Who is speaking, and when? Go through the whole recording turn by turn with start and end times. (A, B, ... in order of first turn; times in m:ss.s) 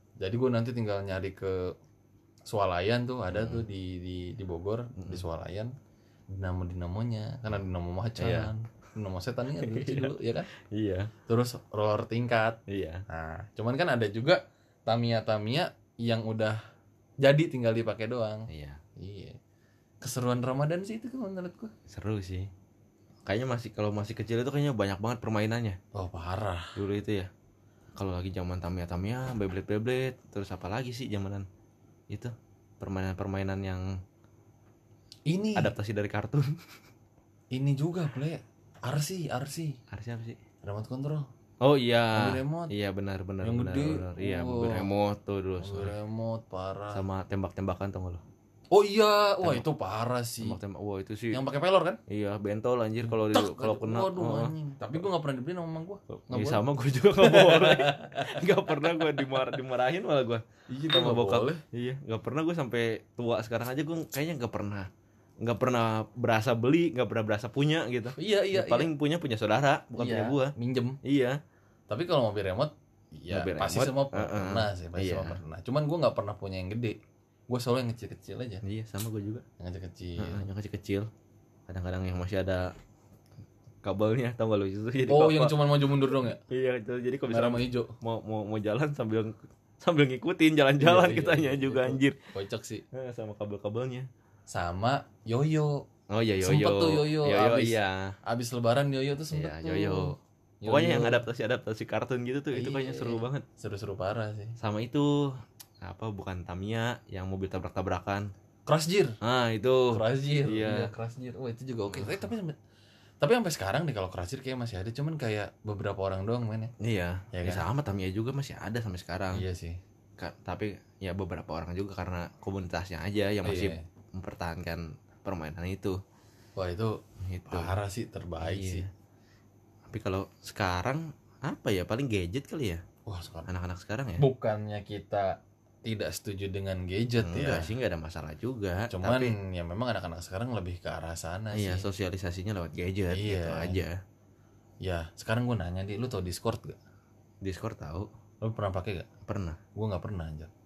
0:00.2-0:01.7 A
0:02.5-0:05.7 A
0:03.3-0:03.6 B
0:05.0-0:05.2 B
0:06.3-0:10.5 A
0:08.2-0:08.5 B
0:09.6-0:11.1 B
0:11.3-0:16.6 A
0:12.7-0:13.0 B
0:17.2-0:19.4 A
0:18.5-0:18.8 B
0:20.0-0:21.7 A
0:21.9-0:22.5 B
0:23.2-0:25.8 B
0:25.9-0:26.8 A
0:26.8-0:27.3 B
0:28.0-0:31.5 B
0:32.1-0:33.9 B
0:35.3-0:35.7 A
0:35.6-0:36.6 B
0:37.5-0:39.8 A
0:39.9-0:40.4 B
0:40.6-0:41.3 A
0:41.6-0:46.0 B
0:42.1-0:42.7 A
0:43.4-0:44.9 A
0:45.6-0:47.0 A
0:46.9-0:48.2 B
0:48.7-0:50.6 A
0:50.4-0:51.4 B
0:51.3-0:52.0 A
0:52.1-0:55.0 B
0:53.0-0:56.6 A
0:56.1-1:04.9 B
0:57.2-0:59.5 A
1:00.7-1:01.6 A
1:05.4-1:11.4 B
1:08.2-1:08.9 A
1:10.0-1:11.0 A
1:11.9-1:17.0 A
1:13.3-1:15.4 B
1:17.5-1:18.6 A
1:18.6-1:19.4 B
1:19.6-1:20.4 A
1:20.2-1:21.1 B
1:21.7-1:22.7 B
1:23.8-1:25.6 B
1:25.1-1:26.4 A
1:26.4-1:32.2 B
1:27.3-1:27.9 A
1:30.8-1:32.8 A
1:32.9-1:34.1 B
1:34.5-1:35.8 A
1:36.1-1:38.1 B
1:36.4-1:41.2 A
1:39.3-1:43.4 B
1:42.5-1:44.6 A
1:44.6-1:48.3 B
1:48.7-1:49.2 A
1:49.2-1:50.9 B
1:49.9-1:52.5 A
1:51.9-1:52.2 B
1:53.2-1:56.7 A
1:56.8-1:59.4 B
1:57.3-1:57.6 A
1:59.3-1:59.8 A
2:00.2-2:06.0 B
2:03.4-2:03.8 A
2:06.6-2:08.9 A
2:07.2-2:07.7 B
2:08.4-2:08.9 B
2:09.9-2:12.8 B
2:13.0-2:13.5 A
2:13.5-2:14.2 B
2:14.2-2:17.7 A
2:17.2-2:19.3 B
2:18.9-2:21.9 A
2:21.5-2:24.0 B
2:23.1-2:23.8 A
2:24.8-2:26.8 A
2:27.4-2:28.1 B
2:28.4-2:29.1 A
2:29.2-2:29.6 B
2:29.7-2:30.5 A